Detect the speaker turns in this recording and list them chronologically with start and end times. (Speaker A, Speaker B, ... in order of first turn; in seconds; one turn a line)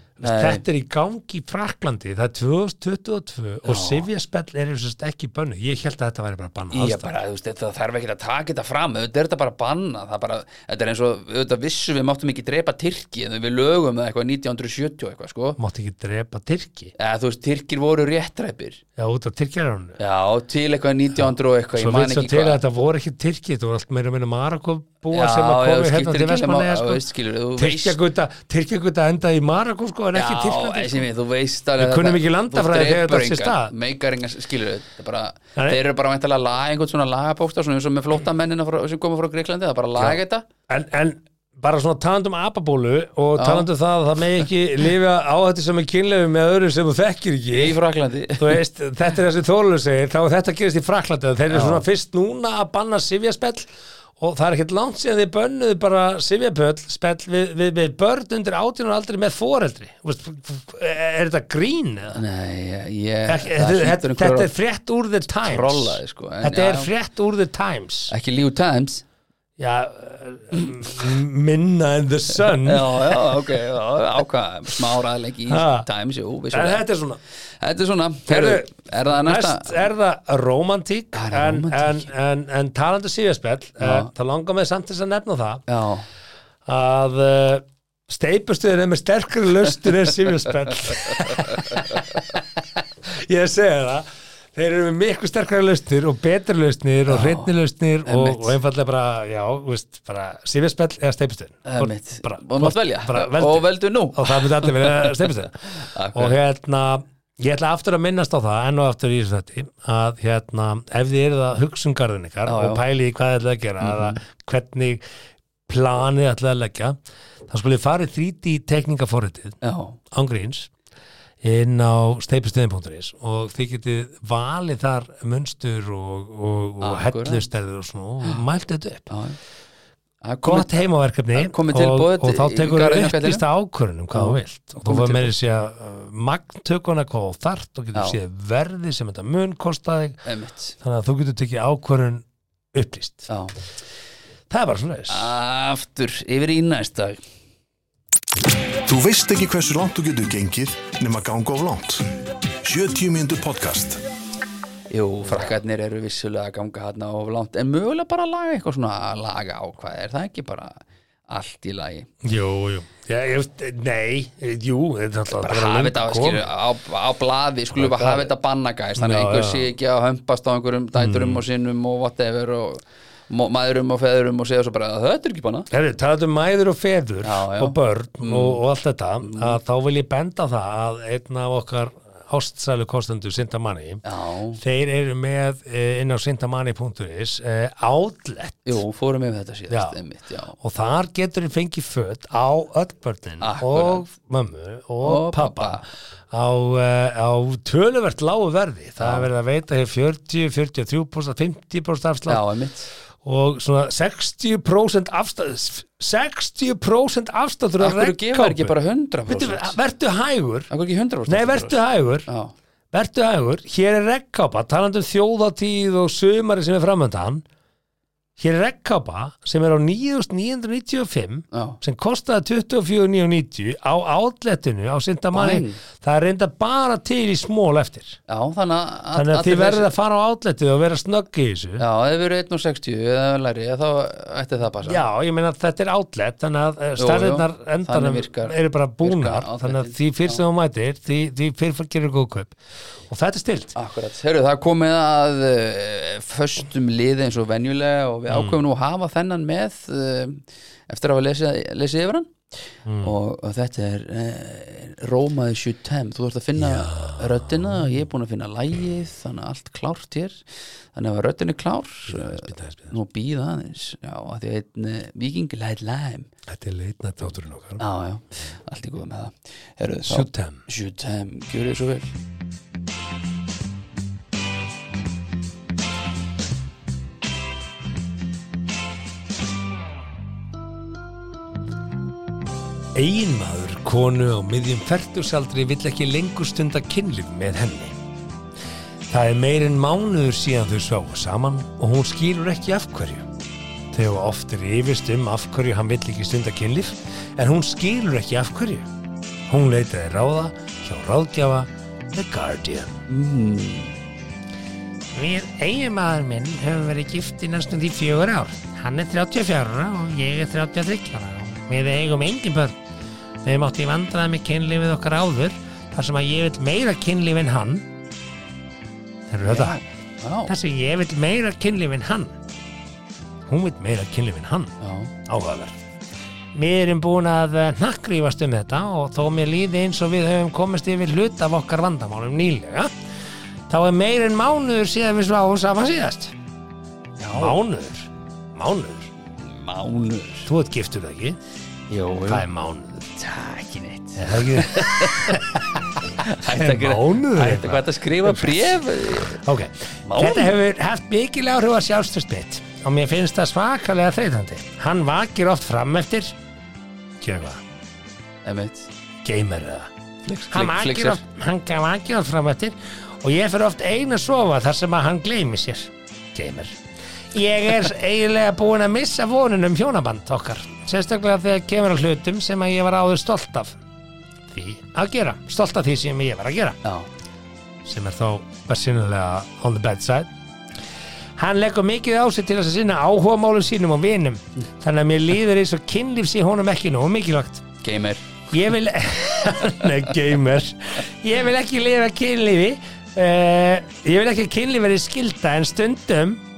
Speaker A: 0.2-7.1
Speaker B: 0.2-0.6
Speaker B: 3.6-4.1
Speaker B: 6.7-15.6
Speaker A: 15.6-16.9
Speaker B: 17.0-18.8
Speaker A: 19.0-20.0
Speaker B: 20.0-22.6
Speaker A: 21.2-27.0
Speaker B: 25.1-28.0
Speaker A: 27.6-31.1
Speaker B: 30.1-40.5
Speaker A: 31.8-33.7
Speaker A: 40.0-47.8
Speaker B: 43.4-43.7
Speaker B: 47.5-48.6
Speaker A: 48.4-62.2
Speaker B: 51.5-51.8
Speaker B: 62.1-64.5
Speaker A: 63.3-68.1
Speaker B: 65.4-66.9
Speaker B: 68.1-69.0
Speaker A: 69.6-73.4
Speaker B: 72.5-76.8
Speaker A: 75.5-75.9
Speaker A: 76.5-77.2
Speaker B: 77.6-79.9
Speaker A: 78.3-85.6
Speaker B: 81.1-82.1
Speaker B: 83.8-84.1
Speaker B: 85.7-86.1
Speaker A: 86.7-92.4
Speaker B: 91.0-92.2
Speaker A: 93.0-115.0
Speaker B: 97.1-97.5
Speaker B: 98.0-98.6
Speaker B: 101.7-106.4
Speaker B: 112.4-112.8
Speaker B: 113.8-114.2
Speaker A: 115.7-117.0
Speaker A: 117.5-119.6
Speaker B: 119.6-120.0
Speaker A: 120.1-120.7
Speaker A: 121.4-129.1
Speaker B: 126.8-127.5
Speaker B: 129.1-129.4
Speaker B: 130.2-130.8
Speaker A: 130.4-140.2
Speaker B: 131.3-133.4
Speaker B: 134.1-135.3
Speaker B: 140.2-140.8
Speaker A: 140.8-143.3
Speaker B: 143.3-143.5
Speaker A: 144.5-145.3
Speaker B: 145.1-147.2
Speaker C: 148.8-152.1
Speaker C: 152.6-154.0
Speaker B: 154.9-162.1
Speaker A: 162.2-166.5
Speaker B: 165.3-175.7
Speaker A: 167.7-168.3
Speaker A: 168.9-169.7
Speaker A: 170.9-171.4
Speaker A: 175.7-184.0
Speaker B: 177.2-178.6
Speaker B: 179.2-179.6
Speaker B: 184.0-184.6
Speaker A: 184.6-188.8
Speaker B: 188.6-190.6
Speaker A: 189.7-190.0
Speaker A: 190.6-202.4
Speaker B: 193.4-194.1
Speaker B: 195.0-195.8
Speaker B: 199.0-199.3
Speaker B: 202.3-202.9
Speaker A: 203.2-208.7
Speaker B: 207.8-209.8
Speaker A: 209.3-210.7
Speaker B: 210.7-212.5
Speaker A: 211.3-212.3
Speaker A: 212.9-217.4
Speaker A: 218.4-228.2
Speaker B: 221.5-221.8
Speaker B: 225.3-225.8
Speaker B: 228.3-229.9
Speaker A: 229.1-231.8
Speaker B: 231.8-235.0
Speaker A: 234.8-242.6
Speaker B: 237.0-240.4
Speaker A: 243.1-243.7
Speaker B: 243.7-252.4
Speaker A: 248.3-248.6
Speaker A: 252.8-253.1
Speaker B: 253.0-266.3
Speaker A: 256.6-258.0
Speaker A: 262.1-262.9
Speaker A: 266.5-267.8
Speaker B: 267.8-272.1
Speaker A: 270.1-270.6
Speaker A: 282.9-288.0
Speaker A: 289.1-293.2
Speaker A: 293.9-298.9
Speaker A: 299.5-302.9
Speaker B: 303.1-303.9
Speaker A: 305.1-312.8
Speaker A: 313.4-317.9
Speaker A: 319.3-319.8
Speaker B: 319.4-320.5
Speaker A: 320.5-322.4
Speaker A: 323.5-324.7
Speaker B: 324.8-325.1
Speaker A: 325.2-325.8
Speaker A: 326.5-332.9
Speaker A: 333.7-336.3
Speaker B: 337.2-337.6
Speaker A: 337.3-339.1
Speaker B: 339.4-340.5
Speaker A: 340.4-341.4
Speaker B: 341.9-342.4
Speaker A: 342.3-343.0
Speaker B: 343.1-349.4
Speaker A: 344.1-356.4
Speaker B: 350.0-350.5
Speaker A: 357.2-357.6
Speaker B: 358.4-358.9
Speaker A: 359.2-366.8
Speaker B: 360.4-361.2
Speaker A: 367.3-373.8
Speaker A: 374.5-376.8
Speaker B: 376.8-377.1
Speaker A: 377.8-380.3
Speaker A: 381.4-387.6
Speaker B: 387.8-388.3
Speaker A: 388.5-396.4
Speaker B: 389.6-389.9